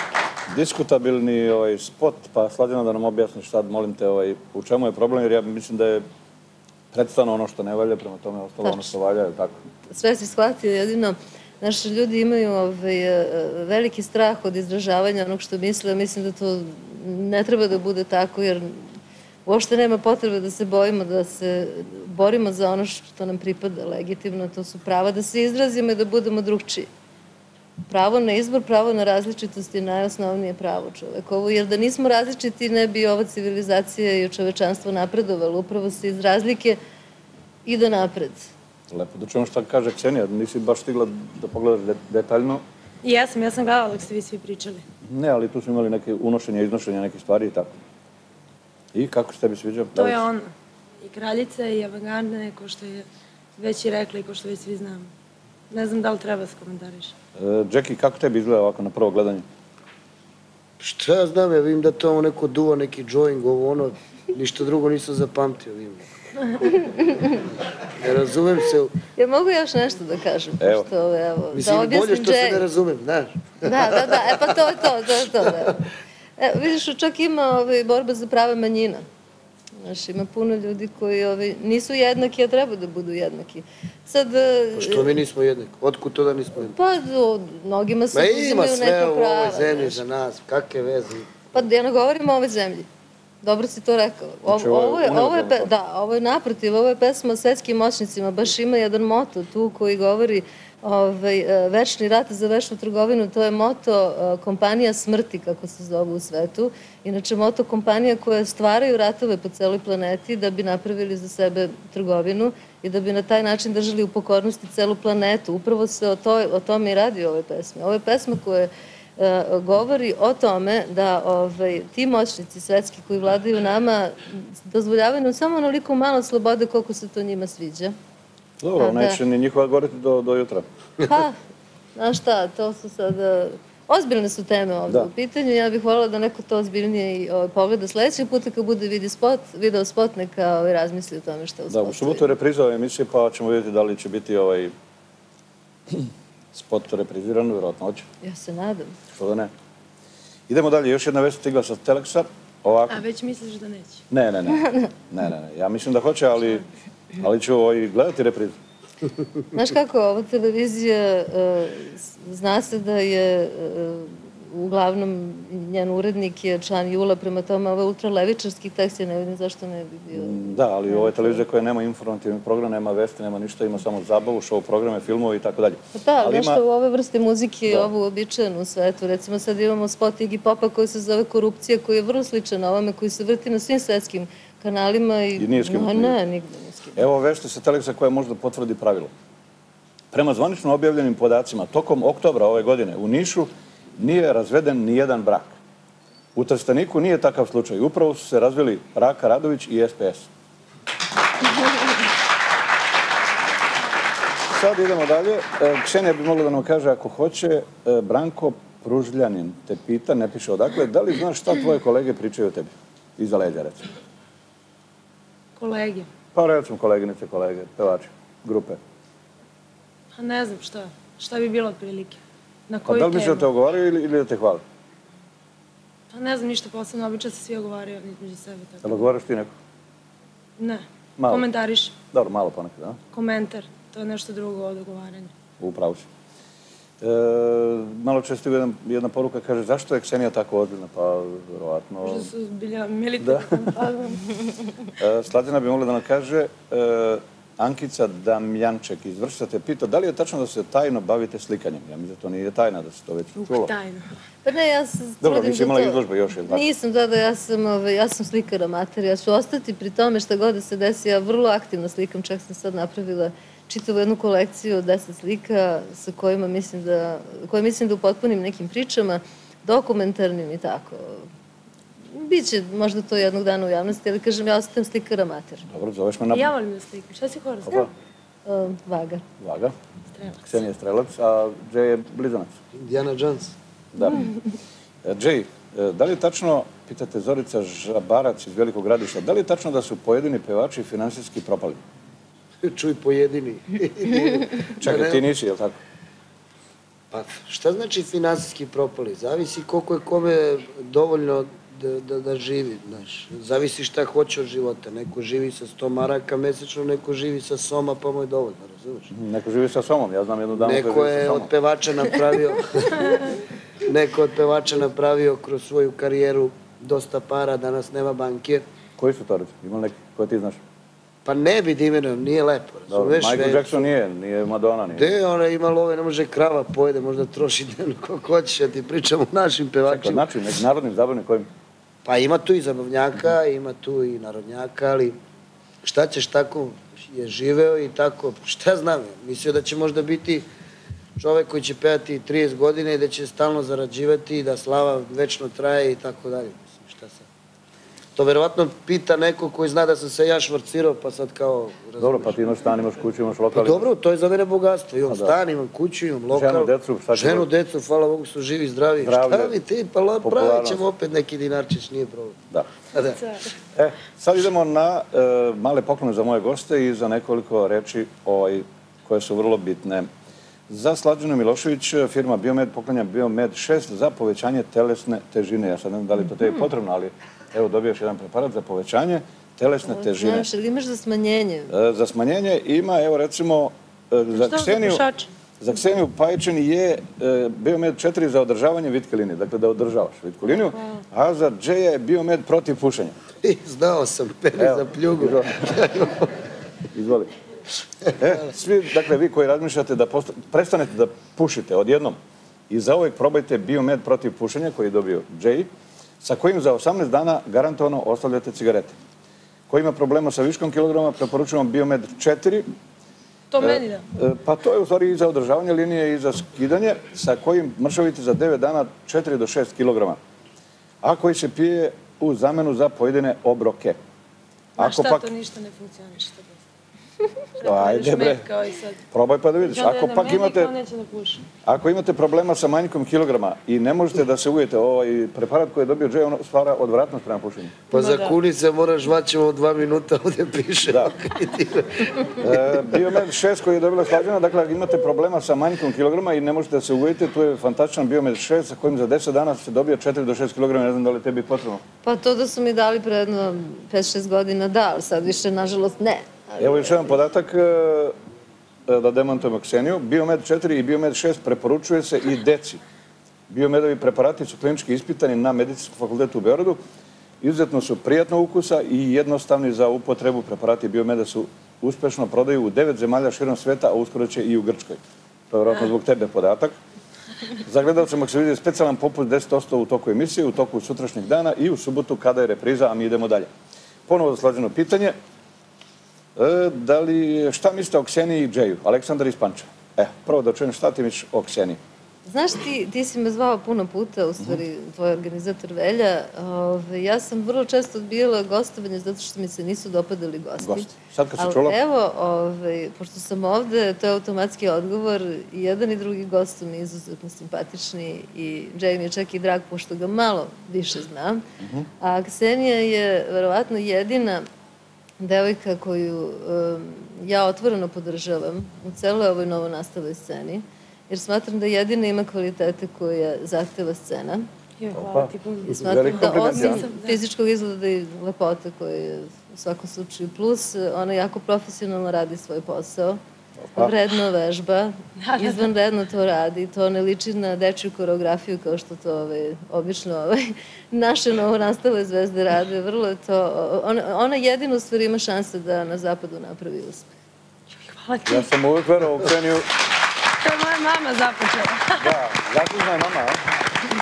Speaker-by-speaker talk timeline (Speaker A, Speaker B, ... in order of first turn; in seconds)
Speaker A: 0.5-6.0, 6.9-9.6, 38.9-42.6, 45.1-47.7, 48.9-50.2, 57.4-59.4, 70.6-70.9, 94.5-95.7, 128.6-130.6, 141.7-144.7, 145.9-148.1, 149.1-149.5, 150.5-153.0, 154.1-156.6, 157.2-158.6, 170.1-176.6, 185.4-186.1, 186.9-189.1, 190.1-195.5, 196.3-200.3, 204.5-213.8, 216.3-218.8, 222.8-224.6, 228.8-229.5, 231.2-231.5, 232.1-233.0, 235.6-236.1, 237.0-242.3, 243.2-243.7, 245.0-253.7, 255.2-256.6, 275.7-276.5, 279.4-279.7, 280.4-282.6, 283.9-284.2, 285.1-291.8, 294.8-295.8, 309.1-311.5, 319.0-320.6, 322.9-325.1, 329.9-331.5, 352.0-353.9, 355.1-355.4, 356.3-357.5, 359.0-359.6, 360.2-360.8, 363.8-370.1, 370.7-380.5, 381.7-385.0, 385.6-393.1, 394.6-395.6, 396.9-397.3, 398.2-402.2, 402.7-405.7, 406.2-408.9, 409.7-412.7, 413.6-420.2, 421.0-424.0, 424.8-425.3, 427.6-428.4, 429.1-430.7, 431.6-437.8, 442.4-451.8, 456.6-458.1, 458.9-462.8, 463.5-466.8, 467.4-476.8, 477.6-483.5, 484.1-485.1, 486.4-491.8, 500.6-501.8, 511.6-511.9, 524.9-526.9, 533.6-533.9, 548.3-549.6, 552.0-553.4
Speaker B: 8.6-8.9, 9.9-18.9, 19.4-26.9, 27.9-36.8, 37.6-38.5, 66.6-67.4, 69.1-72.6, 73.6-75.8, 76.4-79.0, 79.8-85.1, 86.7-90.0, 91.5-92.9, 93.4-127.9, 128.8-129.2, 131.1-131.4, 131.9-142.3, 148.2-148.9, 154.5-154.9, 159.5-171.4, 175.9-187.0, 254.4-256.0, 256.5-271.3, 272.1-275.6, 278.4-279.2, 379.9-381.7, 452.0-457.1, 492.3-511.4, 512.0-514.5, 515.2-524.5, 525.8-533.2, 533.8-547.1
Speaker C: 43.0-44.8, 49.9-50.5, 51.0-53.0, 53.6-55.1, 55.7-57.1, 152.9-154.0, 215.6-216.1, 220.2-223.5, 226.1-229.0, 230.6-231.9, 233.1-235.3, 242.0-244.2, 253.4-254.1, 276.3-277.9, 280.1-280.4, 384.4-385.3, 413.5-414.0, 424.8-426.6, 427.6-429.0, 429.6-431.4, 437.9-438.4, 524.8-527.2, 535.2-535.7, 547.7-548.5, 550.4-552.0
Speaker D: 60.8-66.0, 68.0-68.9, 71.5-74.5, 84.8-86.7, 88.1-91.3, 282.7-283.5, 292.6-295.2, 297.1-309.1, 310.6-313.2, 313.8-318.6, 321.2-323.8, 324.9-330.3, 332.0-335.1, 335.9-340.4, 341.2-347.2, 348.1-352.4, 353.6-362.4, 362.9-363.2, 393.4-396.3, 437.9-442.4